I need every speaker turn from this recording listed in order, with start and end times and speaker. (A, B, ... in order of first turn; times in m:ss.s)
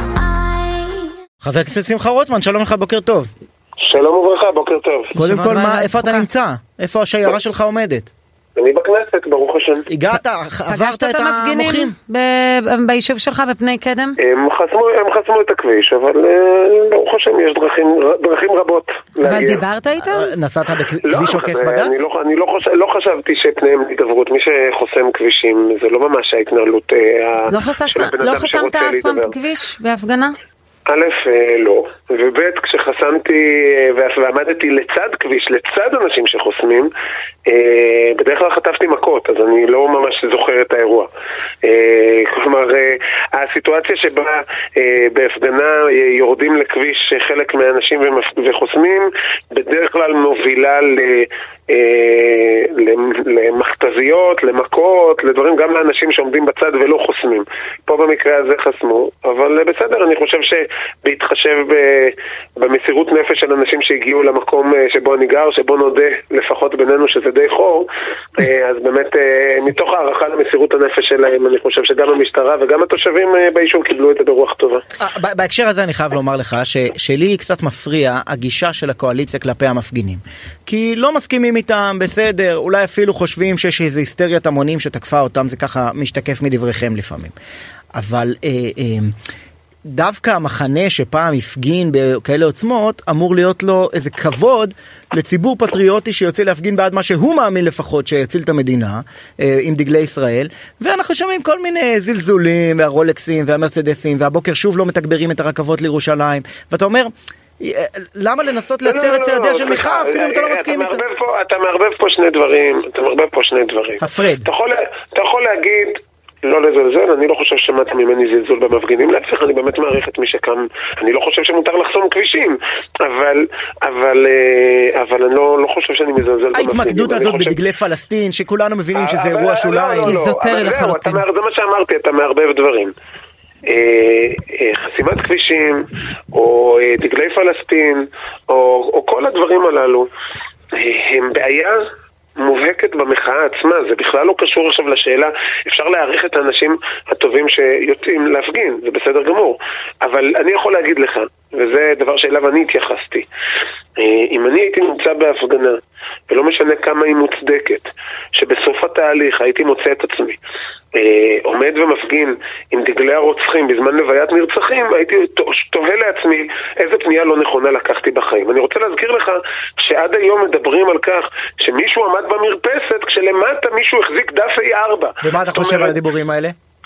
0:01.4-0:03.3 A
0:03.8-0:05.1 B
0:05.2-0:06.3 C
0:05.2-0:08.1 A
0:08.6-0:09.9 B
0:09.9-0:11.9 A
0:10.7-0:14.2 C
0:14.2-0:19.6 B
0:19.2-0:20.3 C
0:20.0-0:22.0 A
0:21.0-0:29.3 B
0:27.5-0:30.4 C
0:30.9-0:36.9 B
0:37.5-0:41.1 B
0:41.6-1:14.8 B
1:15.0-1:27.3 A
1:28.0-1:29.2 A
1:29.9-1:51.0 A
1:48.8-2:07.6 B
1:54.0-1:54.5 A
2:06.5-2:10.2 A
2:08.9-2:12.9 B
2:10.0-2:11.2 C
2:13.6-2:20.1 B
2:20.7-2:21.8 B
2:22.4-2:33.3 B
2:34.0-2:40.4 B
2:40.9-2:56.0 B
2:55.2-2:56.6 A